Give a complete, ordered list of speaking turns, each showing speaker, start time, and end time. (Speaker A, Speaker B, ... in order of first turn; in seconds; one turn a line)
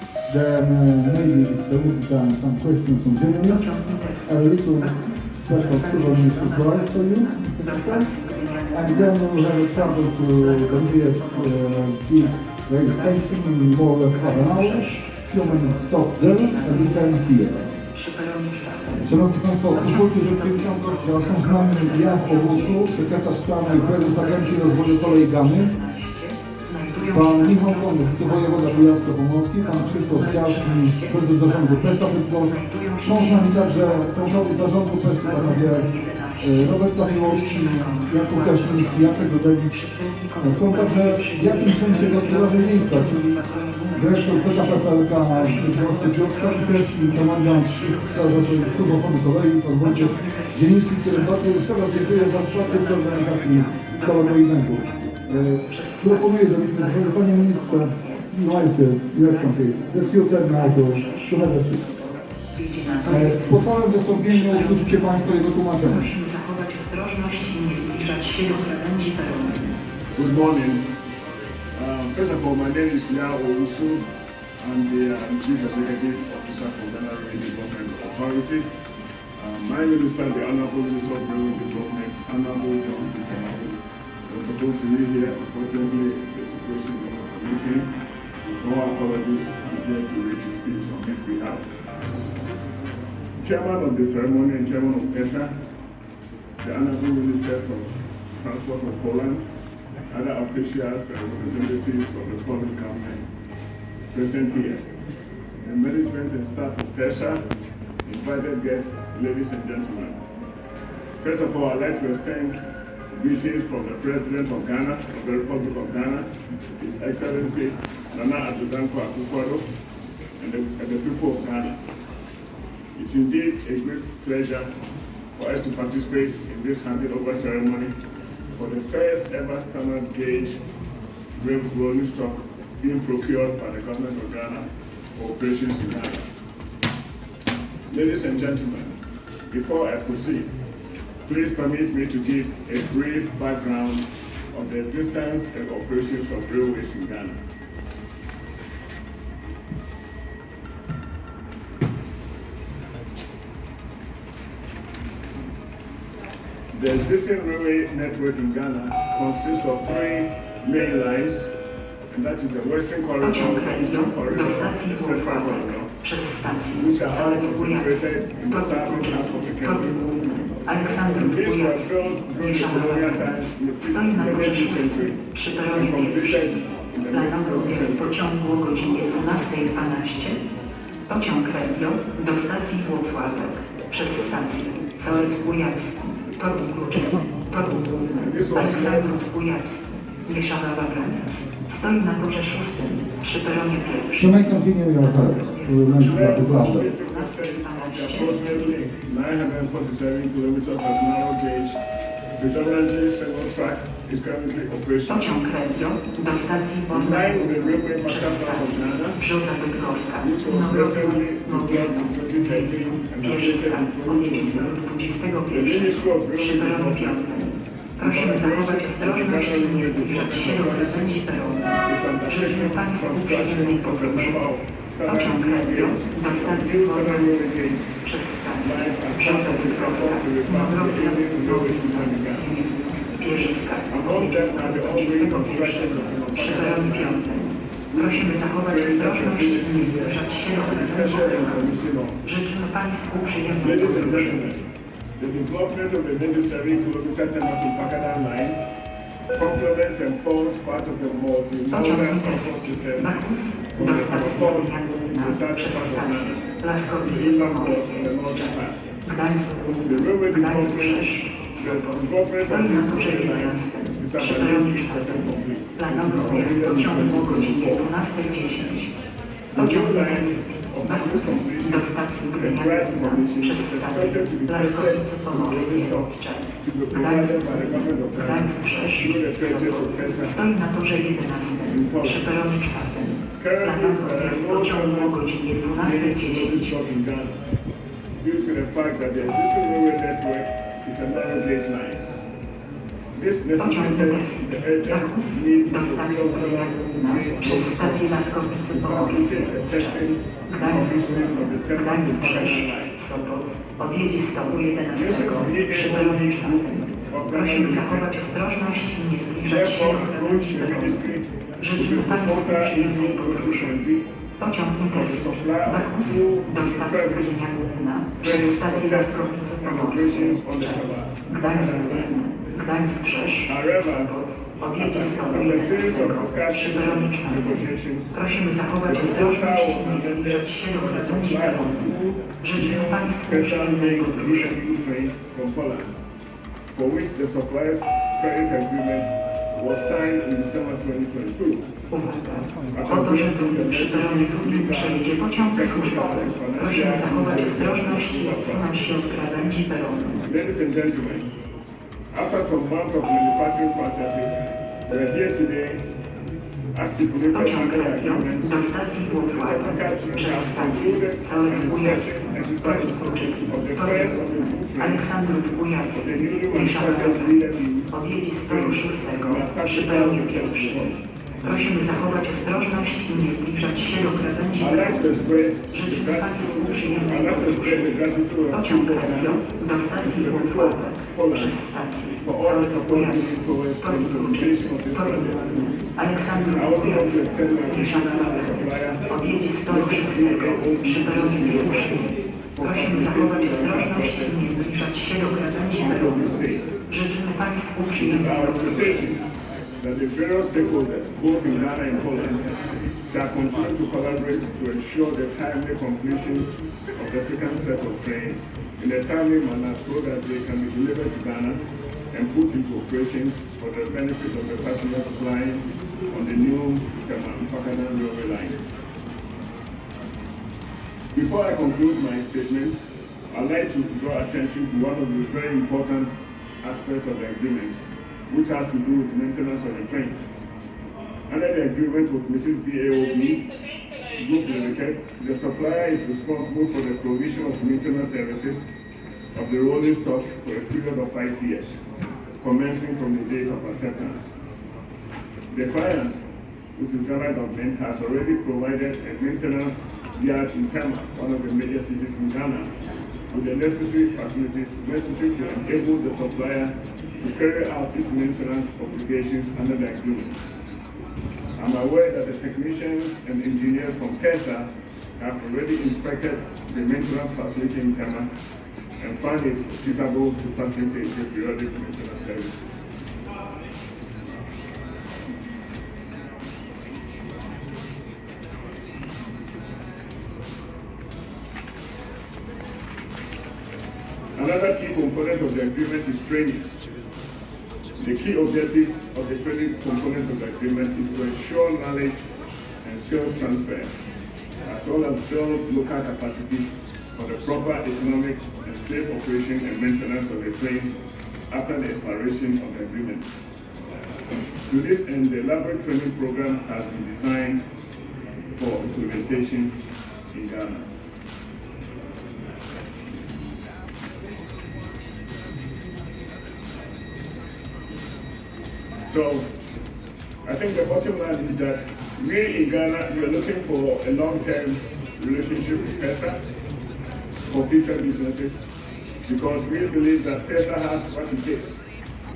Speaker A: 0.3-3.6
Speaker B: 3.4-13.3
Speaker A: 4.2-8.1
Speaker A: 8.7-17.7
Speaker B: 14.1-19.1
Speaker A: 19.0-25.7
Speaker B: 19.7-49.2
Speaker A: 27.1-35.9
Speaker A: 36.4-39.8
Speaker A: 40.4-43.1
Speaker A: 43.9-61.8
Speaker B: 49.8-69.7
Speaker A: 63.0-66.1
Speaker C: 70.1-70.9
Speaker C: 71.7-74.1
Speaker C: 74.6-78.6
Speaker C: 79.4-87.9
Speaker C: 88.4-91.7
Speaker C: 93.4-95.5
Speaker C: 96.6-99.5
Speaker C: 100.1-103.3
Speaker C: 104.1-104.8
Speaker C: 105.6-107.4
Speaker C: 108.0-110.2
Speaker C: 111.2-112.6
Speaker C: 113.1-119.7
Speaker C: 120.4-121.8
Speaker C: 122.9-124.7
Speaker C: 125.3-127.9
Speaker C: 128.5-130.6
Speaker C: 131.3-136.2
Speaker C: 137.9-138.9
Speaker C: 139.5-140.5
Speaker C: 141.2-147.4
Speaker C: 156.7-161.5
Speaker C: 162.1-165.9
Speaker B: 163.2-180.4
Speaker C: 166.7-170.1
Speaker C: 170.8-175.2
Speaker C: 175.7-178.2
Speaker B: 181.1-198.4
Speaker C: 188.1-189.1
Speaker A: 194.2-196.9
Speaker C: 196.0-201.8
Speaker C: 202.4-205.4
Speaker B: 205.1-224.4
Speaker C: 206.9-209.2
Speaker C: 210.2-214.8
Speaker C: 215.5-221.2
Speaker C: 221.8-227.9
Speaker B: 225.0-227.4
Speaker B: 227.9-244.4
Speaker C: 228.6-232.5
Speaker C: 233.9-237.3
Speaker C: 237.9-242.2
Speaker C: 243.6-244.6
Speaker C: 245.2-248.6
Speaker C: 249.3-258.9
Speaker B: 251.7-258.5
Speaker B: 259.0-268.9
Speaker C: 259.8-267.8
Speaker C: 269.5-276.1
Speaker B: 269.6-286.8
Speaker C: 276.6-280.3
Speaker C: 281.7-282.2
Speaker C: 283.4-285.2
Speaker C: 285.7-287.4
Speaker C: 288.2-292.2
Speaker C: 293.1-298.1
Speaker B: 293.6-313.8
Speaker C: 298.7-302.9
Speaker C: 304.9-308.1
Speaker C: 309.5-314.1
Speaker B: 314.4-334.6
Speaker C: 314.9-317.5
Speaker C: 318.2-322.1
Speaker C: 323.5-324.1
Speaker C: 324.7-328.1
Speaker C: 328.8-335.9
Speaker C: 336.7-341.6
Speaker B: 341.9-350.2
Speaker C: 342.7-348.9
Speaker C: 350.2-351.3
Speaker C: 352.1-355.9
Speaker C: 356.7-365.0
Speaker B: 357.3-399.1
Speaker C: 365.9-367.9
Speaker C: 368.4-371.0
Speaker C: 374.6-379.4
Speaker C: 380.0-381.6
Speaker C: 382.2-385.7
Speaker C: 386.5-389.1
Speaker C: 389.7-394.5
Speaker C: 395.7-396.6
Speaker C: 398.0-399.2
Speaker C: 399.8-402.4
Speaker C: 403.1-411.6
Speaker C: 412.1-418.6
Speaker C: 421.1-430.2
Speaker C: 431.3-433.5
Speaker C: 434.1-438.6
Speaker C: 439.3-441.8
Speaker C: 442.4-444.3
Speaker C: 445.5-446.2
Speaker C: 446.7-452.7
Speaker C: 453.3-460.4
Speaker C: 461.6-464.6
Speaker C: 465.2-468.3
Speaker C: 469.0-472.7
Speaker C: 484.3-486.8
Speaker C: 488.0-492.2
Speaker C: 492.8-493.9
Speaker C: 494.6-500.9
Speaker C: 501.5-503.3
Speaker C: 504.7-507.6
Speaker C: 508.5-509.7
Speaker C: 510.3-510.9
Speaker C: 519.0-519.5
Speaker C: 520.4-526.4
Speaker C: 527.5-528.6
Speaker C: 529.2-531.8